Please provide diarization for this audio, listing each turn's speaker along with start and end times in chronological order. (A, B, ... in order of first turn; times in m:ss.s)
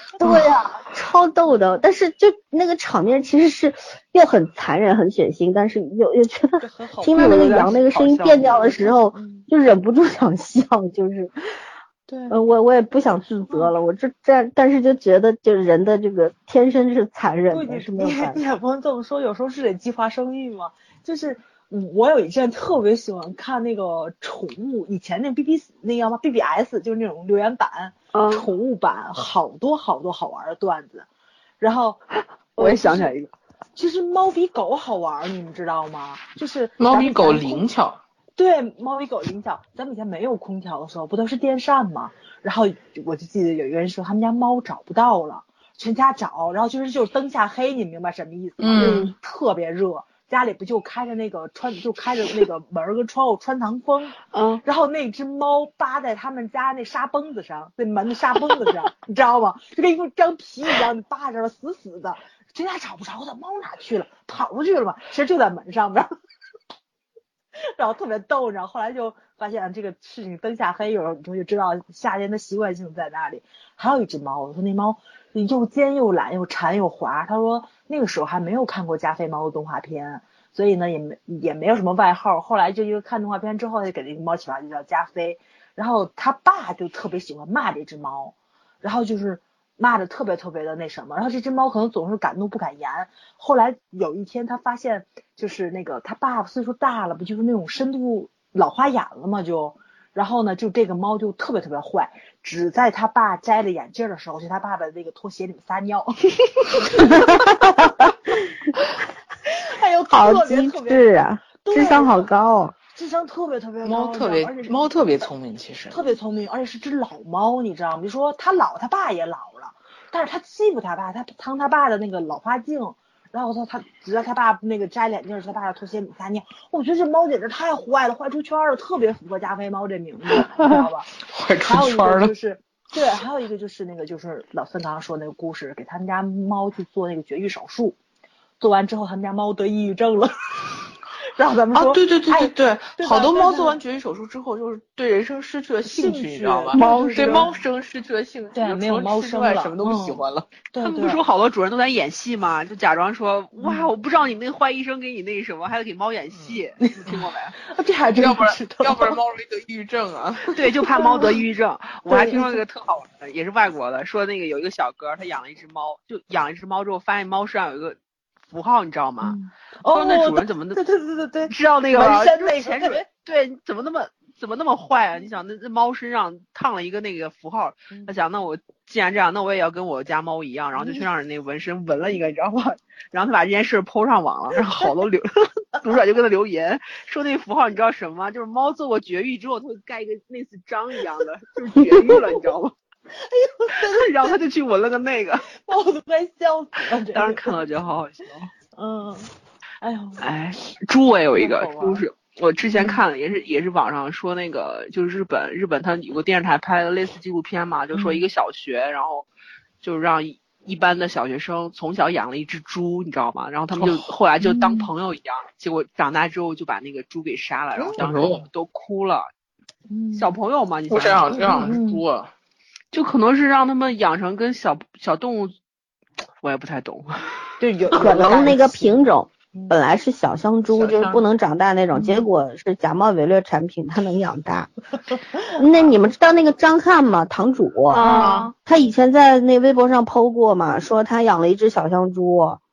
0:00.2-0:11.3 A
0:06.6-0:07.7 B
0:07.2-0:08.7 C
0:09.1-0:09.5 B
0:12.1-0:12.4 B
0:12.3-0:18.4 A
0:17.5-0:31.1 B
0:28.1-0:28.5 C
0:31.6-0:32.0 B
0:32.6-0:33.1 B
0:32.6-0:33.3 C
0:33.8-0:37.7 B
0:36.8-0:38.0 D
0:38.4-1:06.1 B
0:48.6-0:49.1 D
0:48.8-0:49.1 C
0:54.3-0:54.6 C
1:07.7-1:47.6 B
1:47.0-1:48.3 A
1:49.6-1:51.1 B
1:50.1-1:52.8 A
1:51.6-1:52.3 B
1:52.9-1:55.3 B
1:53.8-1:56.0 D
1:55.9-2:11.1 B
2:10.4-2:12.3 D
2:11.6-2:18.0 B
2:18.6-2:20.3 B
2:21.4-2:23.8 B
2:21.7-2:30.5 D
2:25.8-2:27.6 B
2:26.8-2:27.5 C
2:28.5-2:31.2 B
2:30.8-2:37.6 C
2:33.6-2:33.9 B
2:36.8-2:39.2 B
2:38.2-2:40.6 D
2:40.5-2:48.0 C
2:41.0-2:41.3 B
2:42.1-2:42.6 B
2:48.5-2:49.4 C
2:49.2-2:53.0 B
2:49.9-2:50.8 C
2:51.5-3:12.7 C
3:13.2-3:14.4 B
3:13.8-3:15.5 C
3:15.6-3:17.6 B
3:17.1-3:18.5 C
3:18.8-3:20.2 B
3:20.2-3:29.3 C
3:21.4-3:22.0 B
3:22.8-3:23.0 B
3:27.9-3:28.3 B
3:29.8-3:39.3 C
3:34.4-3:34.9 B
3:37.8-3:38.0 B
3:38.0-3:38.4 D
3:39.9-3:40.3 B
3:40.2-3:41.8 C
3:40.9-3:42.3 D
3:41.3-3:42.0 B
3:42.9-3:45.5 C
3:46.4-3:47.5 C
3:47.6-3:49.8 B
3:47.9-3:54.7 A
3:50.7-3:51.2 D
3:51.9-3:52.2 B
3:55.6-4:02.6 A
3:57.9-3:58.5 C
3:58.0-3:58.5 B
3:58.2-3:58.5 D